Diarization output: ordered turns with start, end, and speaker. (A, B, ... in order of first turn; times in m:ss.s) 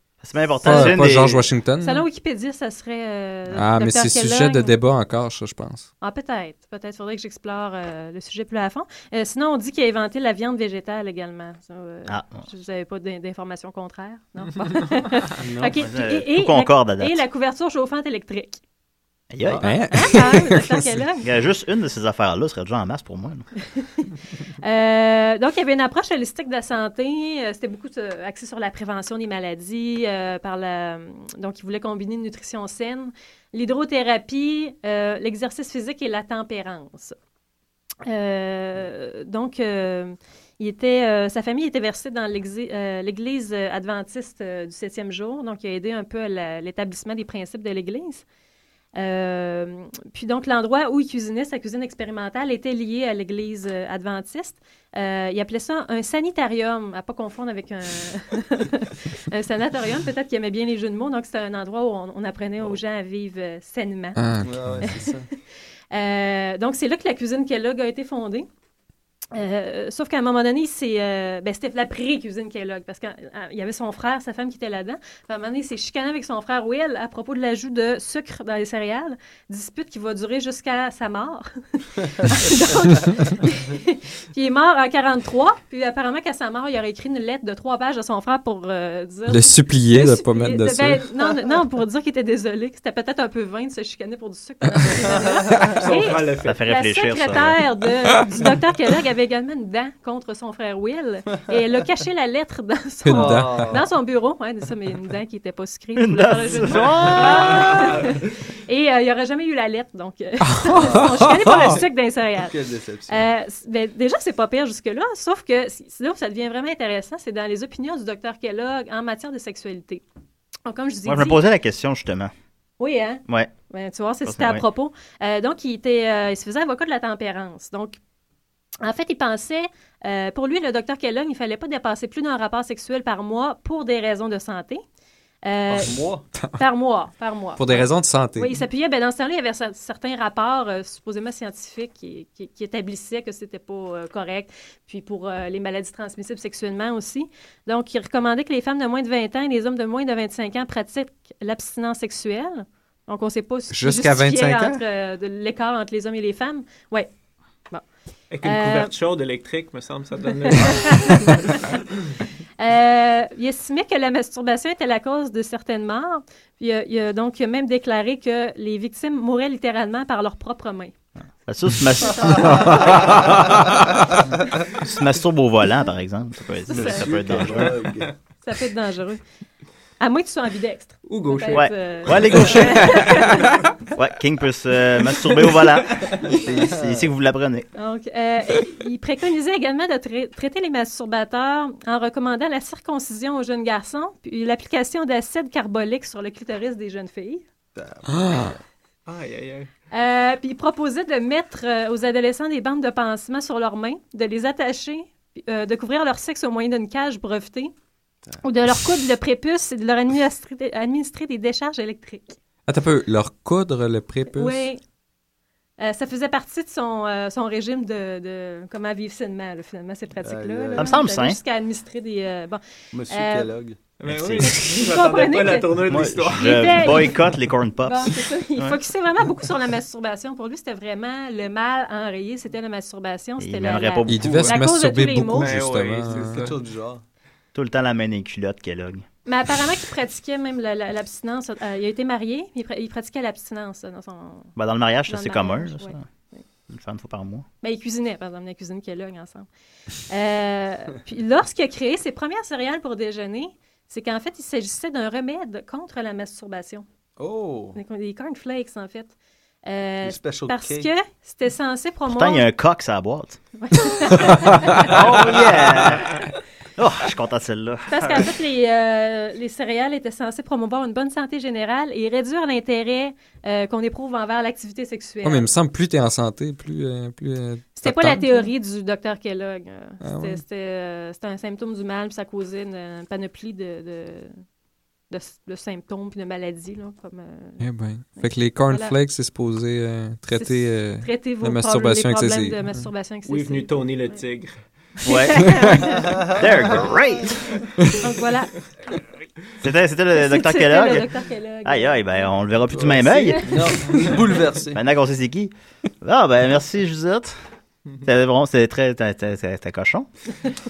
0:00.2-0:01.5 A
0:00.6-0:02.1 B
0:00.7-0:01.0 C
0:01.8-0:04.8 C
0:03.5-0:05.9 B
0:06.0-0:18.6 C
0:12.1-0:12.4 A
0:15.4-0:15.8 D
0:15.8-0:17.2 A
0:19.3-0:19.8 A
0:19.4-0:19.8 D
0:19.6-0:21.0 B
0:19.9-0:21.3 C
0:21.2-0:23.5 A
0:23.7-0:37.2 C
0:38.0-0:48.2 C
0:49.0-1:05.2 C
1:04.2-1:04.9 B
1:04.4-1:05.3 D
1:05.9-1:08.5 C
1:09.3-1:52.6 C
1:29.3-1:31.2 B
1:34.7-1:35.0 B
1:35.6-1:36.6 E
1:36.5-1:37.6 A
1:43.0-1:43.8 B
1:43.1-1:43.9 D
1:46.0-1:47.8 A
1:46.7-1:48.2 E
1:50.4-1:51.8 B
1:50.7-1:51.7 D
1:52.3-1:53.3 D
1:53.1-2:00.0 C
2:00.7-2:01.4 C
2:01.1-2:02.3 A
2:02.8-2:08.0 C
2:04.3-2:04.6 A
2:08.8-2:14.8 C
2:15.4-2:16.0 C
2:15.7-2:16.2 D
2:16.5-2:37.1 C
2:17.6-2:18.6 B
2:33.7-2:34.8 B
2:38.3-2:42.1 E
2:38.4-2:38.9 C
2:40.5-2:41.7 C
2:42.6-2:50.9 C
2:51.4-2:53.6 A
2:52.0-2:53.2 C
2:54.7-2:57.8 A
2:56.6-2:57.8 C
2:56.7-2:58.1 D
2:58.4-2:59.2 C
3:00.0-3:03.6 C
3:01.1-3:03.7 E
3:01.5-3:03.3 A
3:03.9-3:07.7 A
3:05.2-3:06.4 E
3:06.3-3:07.1 D
3:07.8-3:17.4 C
3:17.8-3:18.6 D
3:18.1-3:18.6 B
3:19.1-3:19.7 E
3:19.9-3:27.7 C
3:28.4-3:32.4 C
3:32.7-3:34.7 B
3:34.3-3:34.8 C
3:35.8-3:43.5 C
3:40.2-3:41.0 D
3:40.8-3:41.4 A
3:42.9-3:43.8 D
3:44.0-3:47.2 E
3:44.0-3:44.6 A
3:44.4-3:47.2 C
3:45.9-3:48.8 A
3:47.8-3:55.7 C
3:53.4-3:54.6 A
3:54.1-3:56.5 B
3:55.3-3:56.6 E
3:56.3-3:57.0 D
3:57.5-3:59.0 A
3:59.3-4:04.5 C
4:04.6-4:06.0 A
4:05.1-4:06.0 C
4:06.7-4:07.5 A
4:07.6-4:09.5 C
4:10.1-4:16.8 C
4:17.2-4:17.8 D
4:17.8-4:19.1 C
4:19.6-4:22.5 C
4:20.0-4:20.9 D
4:22.1-4:23.4 A
4:23.6-4:25.7 C
4:24.8-4:26.2 A
4:26.8-4:28.3 A
4:27.9-4:35.5 C
4:35.2-4:38.5 B
4:37.8-4:44.3 C
4:40.0-4:40.4 B
4:45.1-4:47.6 C
4:47.6-4:52.9 B
4:48.2-4:48.9 C
4:50.3-4:54.2 C
4:53.2-4:54.6 E
4:55.1-4:56.2 C
4:55.1-4:57.6 A
4:55.4-4:55.8 B
4:55.9-4:57.0 D
4:58.0-4:58.7 C
4:59.6-5:01.1 A
5:00.1-5:02.3 C
5:01.6-5:03.7 A
5:02.7-5:04.8 D
5:03.2-5:03.7 C
5:04.7-5:07.4 A
5:08.0-5:10.1 A